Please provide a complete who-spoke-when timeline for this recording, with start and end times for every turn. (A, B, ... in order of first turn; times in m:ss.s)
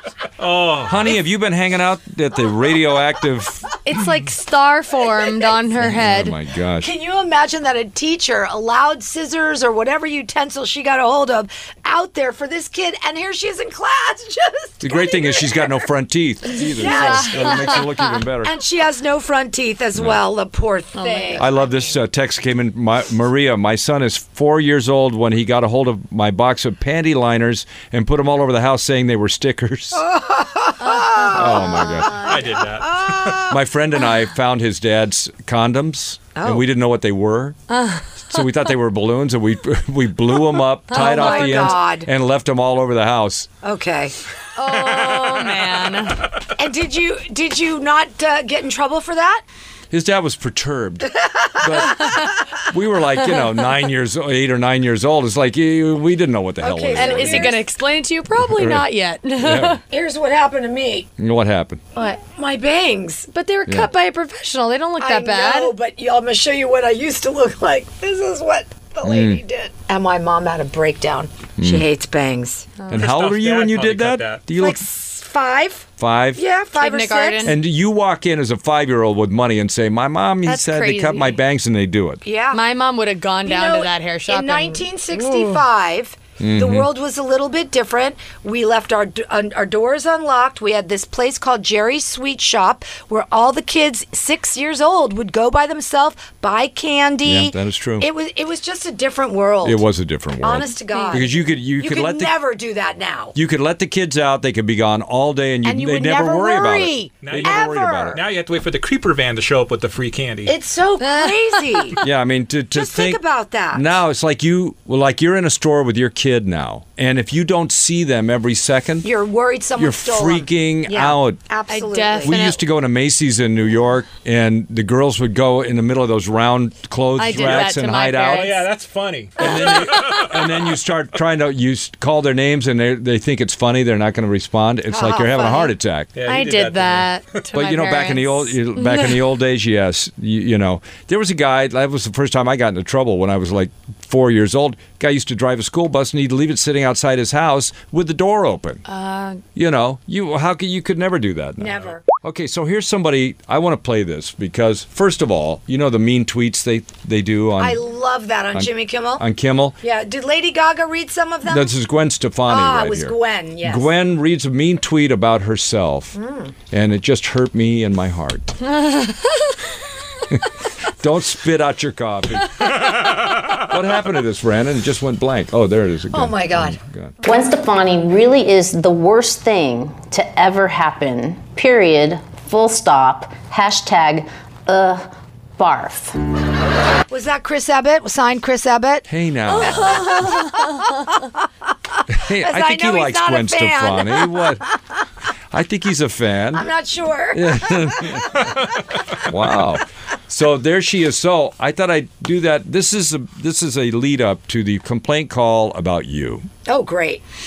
0:00.4-0:01.2 A
0:00.9-0:03.7 B
0:03.8-0:06.4 C
0:05.1-0:05.4 D
0:05.8-0:06.9 B
0:06.8-0:15.9 D
0:14.8-0:18.5 B
0:16.5-0:17.9 D
0:16.7-0:17.8 C
0:18.4-0:21.8 D
0:20.0-0:20.2 B
0:21.0-0:21.5 C
0:21.4-0:30.0 B
0:30.0-0:32.1 D
0:30.8-0:32.6 C
0:31.3-0:32.2 B
0:32.2-0:33.5 A
0:33.0-0:33.4 D
0:33.4-0:37.6 B
0:36.4-0:36.6 D
0:37.7-0:38.4 C
0:38.2-0:43.5 B
0:40.9-0:41.8 C
0:40.9-0:42.1 D
0:43.6-0:44.2 D
0:44.6-0:46.3 C
0:46.6-0:49.4 D
0:49.9-0:51.1 B
0:51.1-0:52.6 D
0:51.6-0:57.6 B
0:56.6-0:57.6 D
0:57.0-0:59.8 C
0:58.5-0:59.8 B
0:59.9-1:01.1 D
1:01.2-1:01.8 B
1:02.2-1:03.3 D
1:03.3-1:05.7 C
1:05.0-1:12.7 D
1:09.0-1:09.4 B
1:11.6-1:11.9 B
1:12.9-1:14.4 A
1:12.9-1:14.8 B
1:14.6-1:17.5 D
1:16.0-1:16.4 B
1:16.8-1:17.6 C
1:17.4-1:22.2 B
1:20.4-1:21.4 C
1:22.2-1:22.6 D
1:22.5-1:25.6 C
1:23.4-1:39.8 D
1:26.4-1:26.9 B
1:37.2-1:38.1 B
1:39.6-1:42.4 B
1:40.4-1:43.4 D
1:40.9-1:41.2 C
1:43.4-1:48.2 B
1:45.6-1:48.2 D
1:47.2-1:50.6 A
1:50.5-1:52.0 D
1:51.0-1:51.8 C
1:52.0-1:53.2 B
1:52.7-1:54.0 D
1:53.7-1:59.1 B
1:59.0-2:02.3 D
1:59.8-2:01.4 B
2:01.7-2:02.6 C
2:02.2-2:08.5 B
2:07.2-2:08.6 C
2:07.3-2:07.7 A
2:08.3-2:10.6 A
2:09.4-2:16.1 B
2:09.5-2:10.0 C
2:14.9-2:15.7 D
2:16.2-2:17.4 A
2:16.3-2:19.2 C
2:17.5-2:28.8 B
2:28.9-2:29.4 C
2:29.6-2:37.8 B
2:31.6-2:32.0 D
2:37.6-2:39.2 D
2:38.5-2:39.8 B
2:39.8-2:41.7 D
2:41.5-2:46.2 B
2:42.5-2:43.9 D
2:46.2-2:46.6 D
2:46.7-2:48.6 B
2:51.0-2:52.8 B
2:52.6-2:53.1 A
2:53.5-2:57.2 B
2:56.1-2:56.8 D
2:57.2-3:06.2 E
3:07.1-3:09.1 D
3:09.1-3:10.2 B
3:09.5-3:10.9 C
3:09.6-3:10.8 D
3:12.1-3:14.6 B
3:12.4-3:14.6 D
3:15.5-3:16.7 B
3:16.5-3:19.0 D
3:17.3-3:18.4 B
3:19.3-3:26.5 B
3:26.7-3:27.2 D